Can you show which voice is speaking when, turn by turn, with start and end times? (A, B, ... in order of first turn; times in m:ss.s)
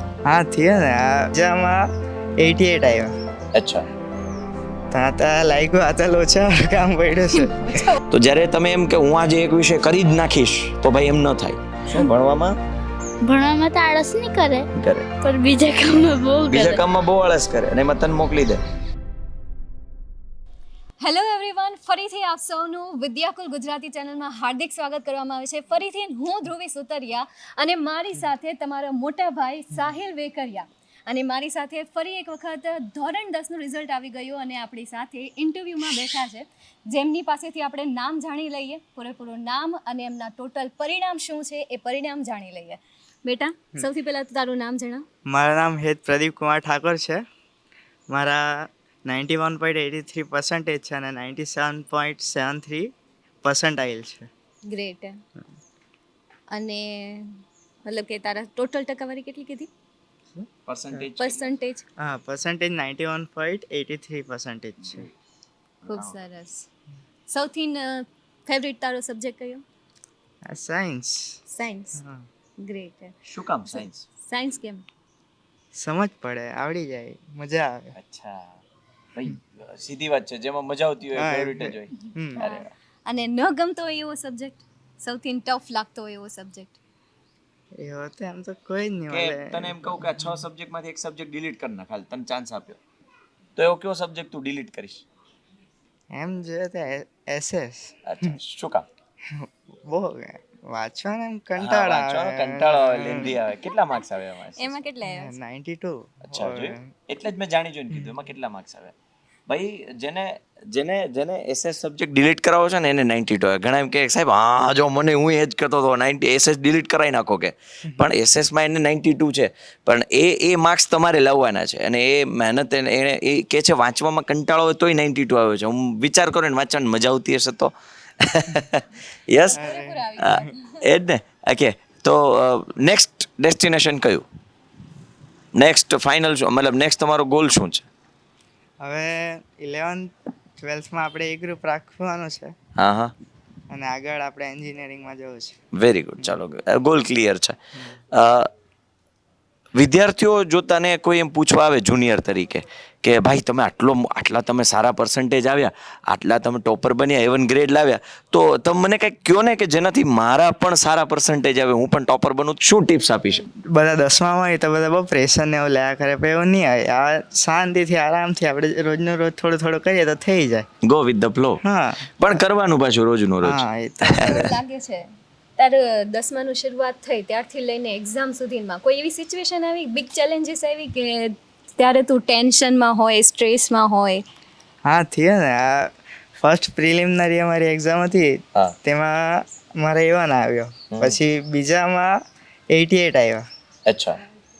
0:00.2-0:01.9 A
0:02.4-0:03.1 A
0:03.5-0:03.8 B
0:04.9-0:07.8 A
0:07.5-0:08.0 C
0:08.1-0:12.6 B
0:13.2-0:14.7 D
0:14.7-0:15.1 B
0:15.2-0:16.8 D
0:16.5-0:18.6 B
0:21.0-0:45.0 C
0:45.3-0:47.2 A
0:48.1-0:54.3 A
0:54.7-0:55.2 C
0:56.5-0:59.7 C
1:00.6-1:01.5 B
1:01.2-1:01.8 C
1:02.0-1:05.1 A
1:05.8-1:06.2 B
1:05.9-1:06.6 C
1:07.3-1:09.6 C
1:10.5-1:11.4 A
1:11.5-1:12.0 C
1:12.0-1:12.2 A
1:12.6-1:13.1 C
1:13.3-1:14.0 B
1:13.7-1:14.8 C
1:15.7-1:17.9 A
1:18.0-1:18.6 B
1:19.1-1:22.7 B
1:21.1-1:22.4 A
1:22.4-1:26.7 C
1:27.8-1:29.8 A
1:29.1-1:32.8 B
1:33.6-1:35.0 B
1:36.1-1:38.4 A
1:38.0-1:38.8 B
1:39.3-1:43.4 A
1:41.6-1:44.8 B
1:44.6-1:45.4 C
1:45.0-1:46.9 A
1:46.2-1:48.9 B
1:49.5-2:09.6 B
2:09.4-2:10.7 C
2:09.6-2:10.4 A
2:10.2-2:14.2 B
2:15.6-2:17.9 B
2:18.8-2:22.5 A
2:22.8-2:23.1 B
2:23.7-2:25.6 A
2:25.8-2:27.6 B
2:28.1-2:28.5 B
2:29.8-2:43.4 B
2:43.7-2:50.7 A
2:50.8-2:51.6 B
2:51.6-2:52.0 A
2:52.2-2:54.4 B
2:53.4-2:54.5 A
2:54.1-2:55.0 C
2:55.6-3:04.2 C
3:04.8-3:12.1 A
3:10.9-3:11.2 B
3:12.7-3:13.4 A
3:13.8-3:14.2 B